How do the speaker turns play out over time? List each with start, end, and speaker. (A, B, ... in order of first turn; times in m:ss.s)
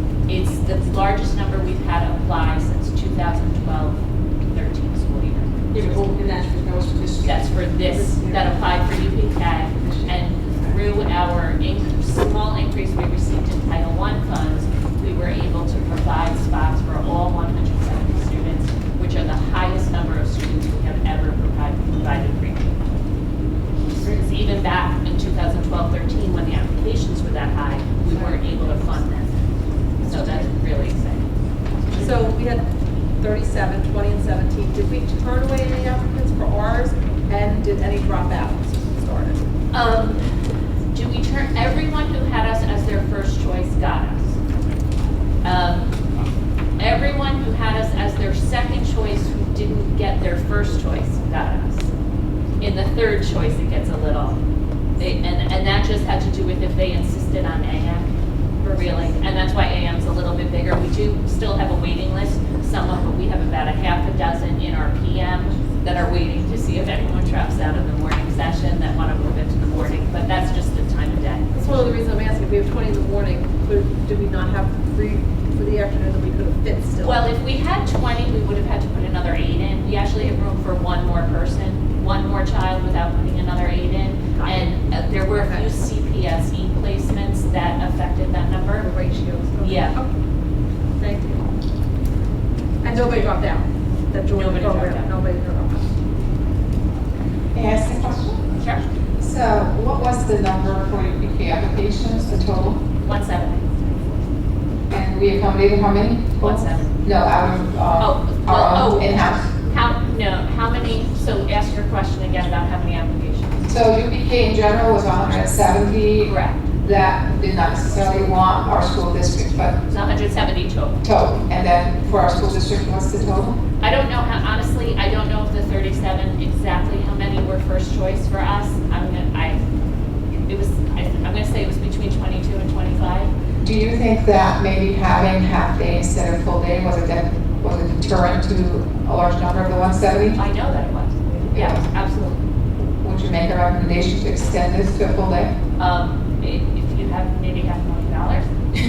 0:00.3-0:06.1 A
0:05.7-0:08.5 B
0:07.2-0:22.8 A
0:09.8-0:10.8 B
0:24.0-0:29.3 A
0:30.0-0:31.3 A
0:31.9-0:32.7 C
0:33.2-0:39.4 C
0:39.7-0:40.2 A
0:40.9-0:44.4 A
0:45.4-0:46.0 A
0:46.8-0:51.9 A
0:52.6-0:54.4 A
0:55.0-0:58.1 A
0:58.6-1:11.6 A
1:11.5-1:17.2 C
1:17.0-1:28.9 A
1:25.3-1:25.6 C
1:28.8-1:30.1 C
1:29.6-1:30.0 A
1:31.0-1:31.4 C
1:32.8-1:33.6 B
1:32.9-1:33.5 C
1:34.1-1:35.8 C
1:34.3-1:35.1 A
1:37.5-1:38.4 D
1:38.6-1:38.8 A
1:39.2-1:42.8 D
1:43.0-1:43.8 A
1:44.9-1:49.5 D
1:46.4-1:46.9 A
1:48.0-1:53.7 A
1:53.7-1:59.8 D
1:56.2-1:56.7 A
1:59.9-2:01.0 A
2:01.0-2:03.6 D
2:03.8-2:09.6 A
2:10.5-2:13.3 A
2:13.6-2:20.4 D
2:20.4-2:22.4 A
2:21.5-2:21.8 D
2:23.0-2:25.5 D
2:25.8-2:28.5 A